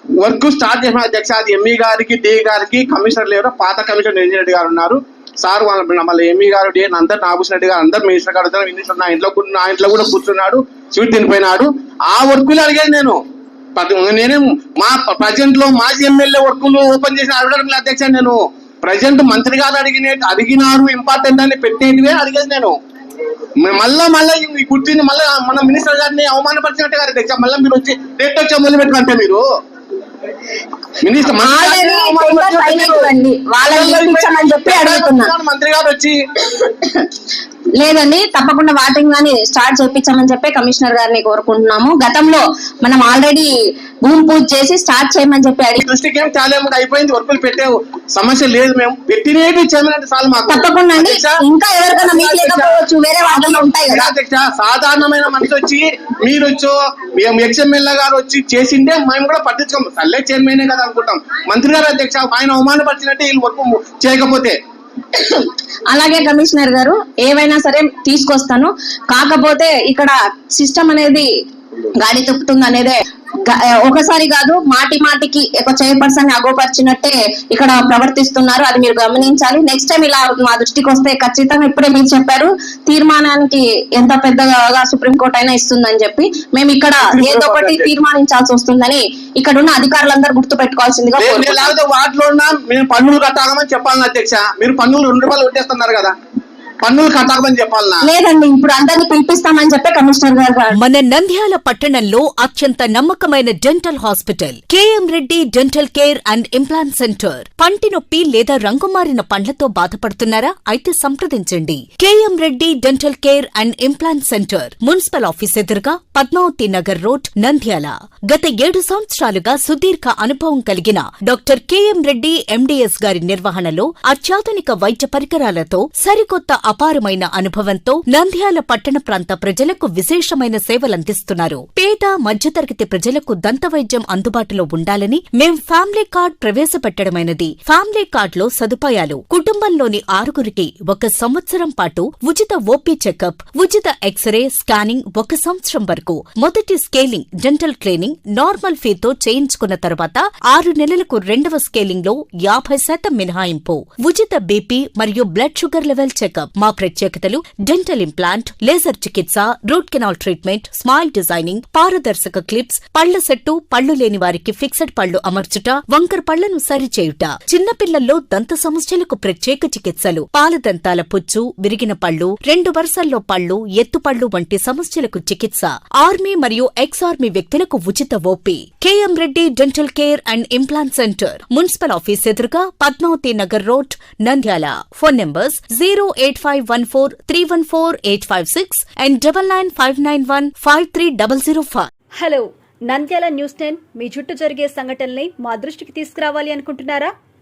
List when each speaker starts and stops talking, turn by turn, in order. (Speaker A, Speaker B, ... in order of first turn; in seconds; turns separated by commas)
Speaker A: 0.2-13.2, Speaker A: 13.8-22.8, Speaker A: 23.6-29.4, Speaker A: 31.0-33.1, Speaker B: 31.3-35.3, Speaker A: 33.6-36.1, Speaker B: 36.6-37.1, Speaker B: 37.8-43.5, Speaker B: 44.0-45.8, Speaker A: 45.8-51.4, Speaker B: 50.5-54.1, Speaker A: 52.0-64.6, Speaker B: 65.1-71.3, Speaker B: 72.0-91.7, Speaker A: 87.0-87.9, Speaker A: 91.2-96.1, Speaker A: 96.8-98.1, Speaker B: 98.1-100.8, Speaker C: 100.7-191.9, Speaker D: 192.2-197.1